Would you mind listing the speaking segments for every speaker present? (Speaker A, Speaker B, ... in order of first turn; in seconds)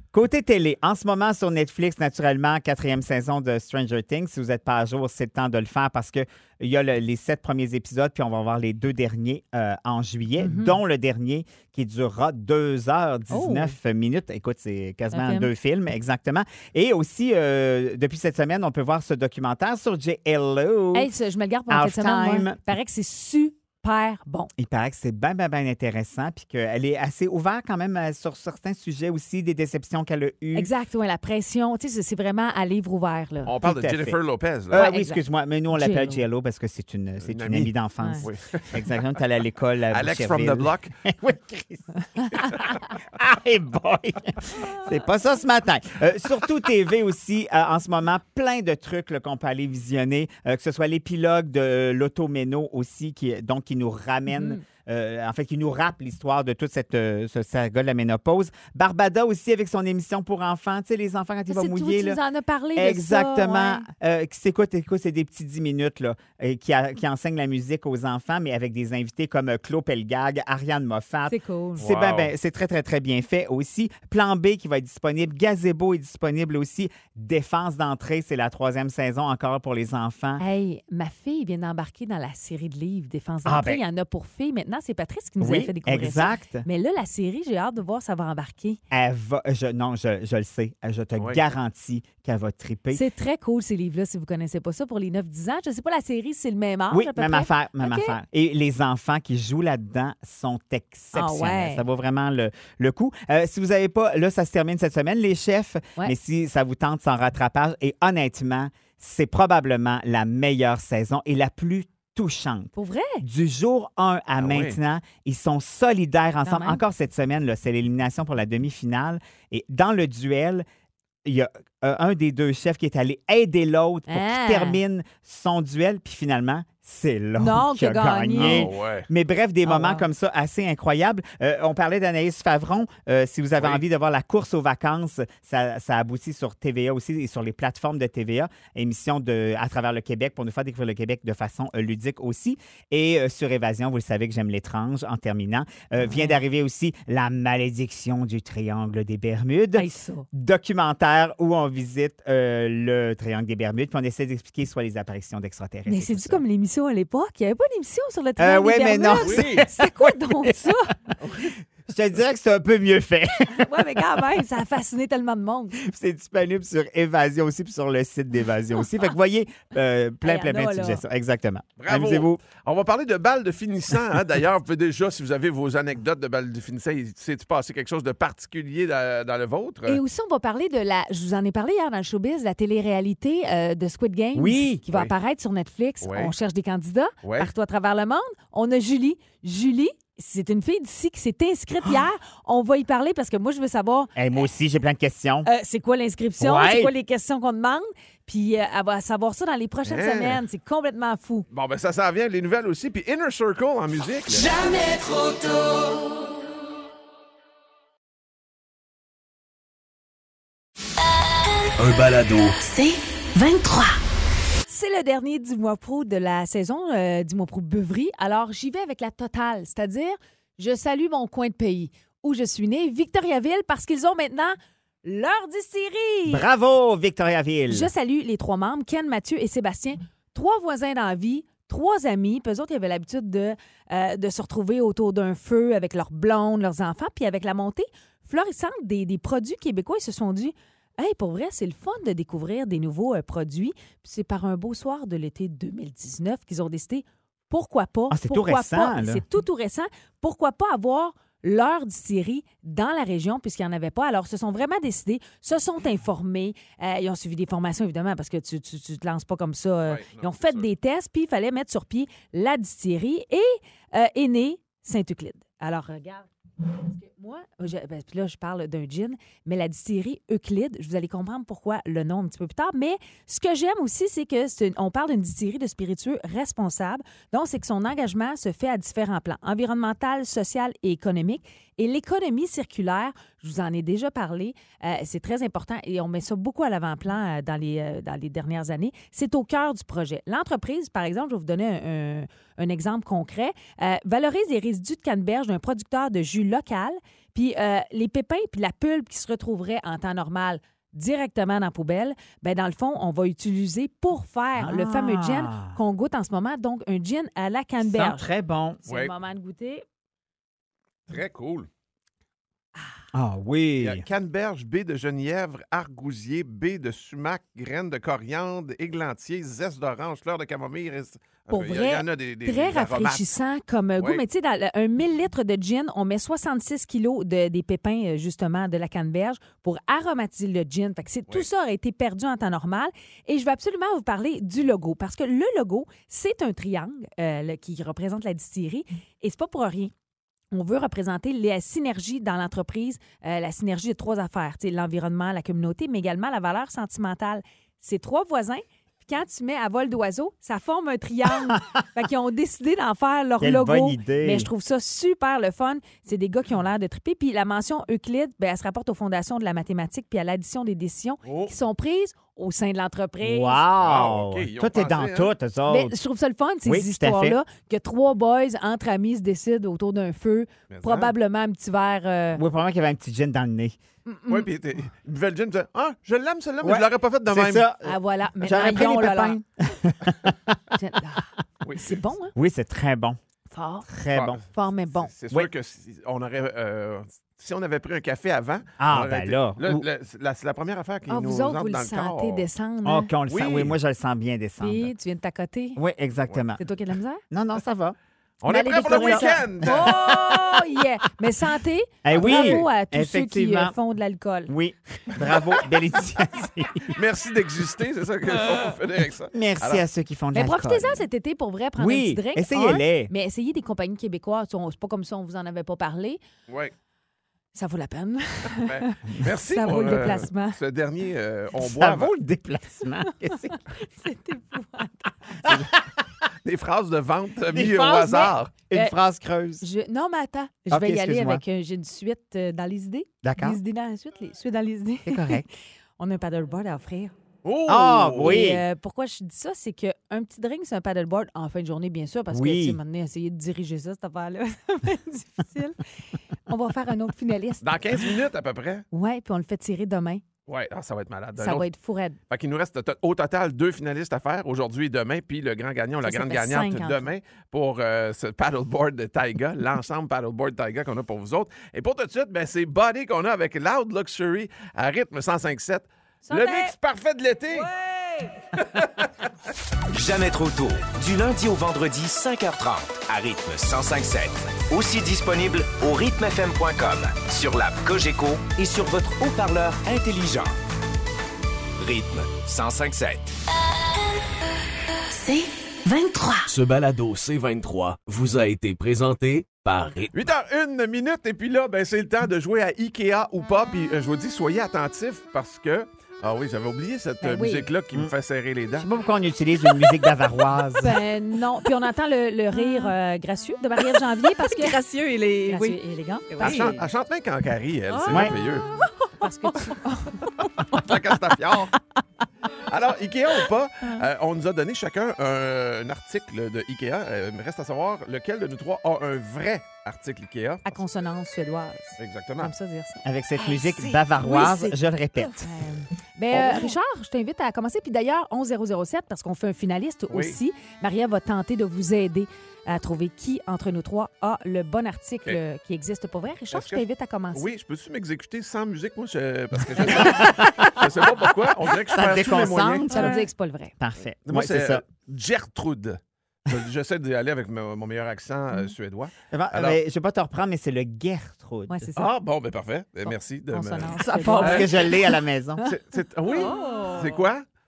Speaker A: 0.1-21.1, 21.7-22.7, 24.6-30.7, 33.6-62.2, 62.8-80.4, 83.5-83.8, 85.4-86.7, 88.9-93.0, 96.9-120.7, 121.2-156.4, 158.4-160.6, 161.9-164.3, 165.8-172.4, 184.3-184.8, 194.2-195.5, 196.4-196.9, 226.3-227.9, 248.1-249.2, 304.6-305.8, 307.8-308.8, 313.1-314.0, 353.4-354.5, 363.2-365.9, 366.6-367.4, 372.4-373.8, 376.6-380.6, 382.4-383.2, 383.9-384.4, 388.8-389.9, 392.8-394.9, 395.8-396.6, 397.3-398.0, 398.5-399.9, 402.1-403.8, 404.5-406.9, 409.3-411.1, 411.8-413.1, 421.6-423.6, 425.4-425.8, 427.5-429.6, 430.7-431.4, 433.2-433.6, 435.1-435.5, 437.7-438.6, 442.3-442.8, 498.8-501.0, 508.1-508.4, 523.0-525.5, 539.8-540.8, 541.9-543.3, 543.8-544.8, 549.3-551.9, 554.1-555.6
Speaker B: 10.4-10.8, 13.3-13.8, 15.1-15.5, 20.9-24.5, 30.5-33.5, 34.7-36.2, 38.0-38.2, 54.3-54.6, 61.5-63.9, 71.3-71.9, 80.4-88.8, 92.9-98.2, 101.1-101.8, 112.8-113.2, 116.5-116.8, 124.1-124.8, 127.4-128.7, 129.6-130.1, 146.0-146.4, 149.8-150.3, 155.9-160.9, 163.5-165.8, 170.2-171.0, 179.8-194.2, 195.4-201.5, 214.7-226.5, 227.7-308.3, 308.9-309.8, 321.5-339.9, 340.5-363.6, 365.7-372.4, 374.1-374.5, 377.8-379.4, 380.7-382.3, 383.5-383.9, 384.5-385.1, 391.1-393.1, 394.6-395.8, 396.6-397.2, 398.5-404.5, 410.3-416.2, 417.5-420.6, 423.4-425.1, 428.7-429.0, 429.6-435.4, 436.0-437.1, 438.2-445.8, 446.5-448.2, 448.9-450.2, 451.4-452.2, 456.0-457.1, 466.2-466.7, 467.6-468.3, 497.2-497.7, 500.8-504.8, 505.5-506.7, 509.2-510.3, 520.6-523.0, 524.1-524.8, 525.3-537.5, 542.9-543.7, 551.7-552.1, 553.5-555.1
Speaker C: 33.5-34.8, 37.2-38.8, 39.9-40.9, 71.8-72.3, 114.4-114.8, 128.4-129.1, 133.6-133.8, 159.2-159.7, 161.2-161.6, 171.8-180.0, 186.0-186.3, 187.2-187.5, 199.8-200.4, 201.5-205.0, 259.9-260.7, 308.9-309.1, 311.1-311.7, 313.8-323.3, 361.2-361.5, 363.8-365.3, 370.7-371.1, 374.3-377.7, 381.6-381.9, 384.1-392.5, 393.3-393.8, 398.4-400.4, 402.1-402.7, 406.9-409.9, 416.5-416.7, 418.5-422.1, 425.4-425.7, 426.4-428.5, 437.4-438.4, 447.6-448.8, 450.5-451.7, 452.3-467.7, 468.6-469.1, 490.1-498.9, 506.4-508.7, 510.7-511.8, 512.6-520.8, 522.0-522.5, 530.1-530.4, 536.5-542.9, 544.3-549.8, 552.0-554.8, 555.6-557.5
Speaker D: 211.8-212.6, 486.5-490.1
Speaker E: 212.6-214.0, 485.1-486.5
Speaker F: 469.9-480.6, 481.8-483.3
Speaker G: 502.6-502.9, 503.9-506.9, 507.9-511.0, 556.3-557.2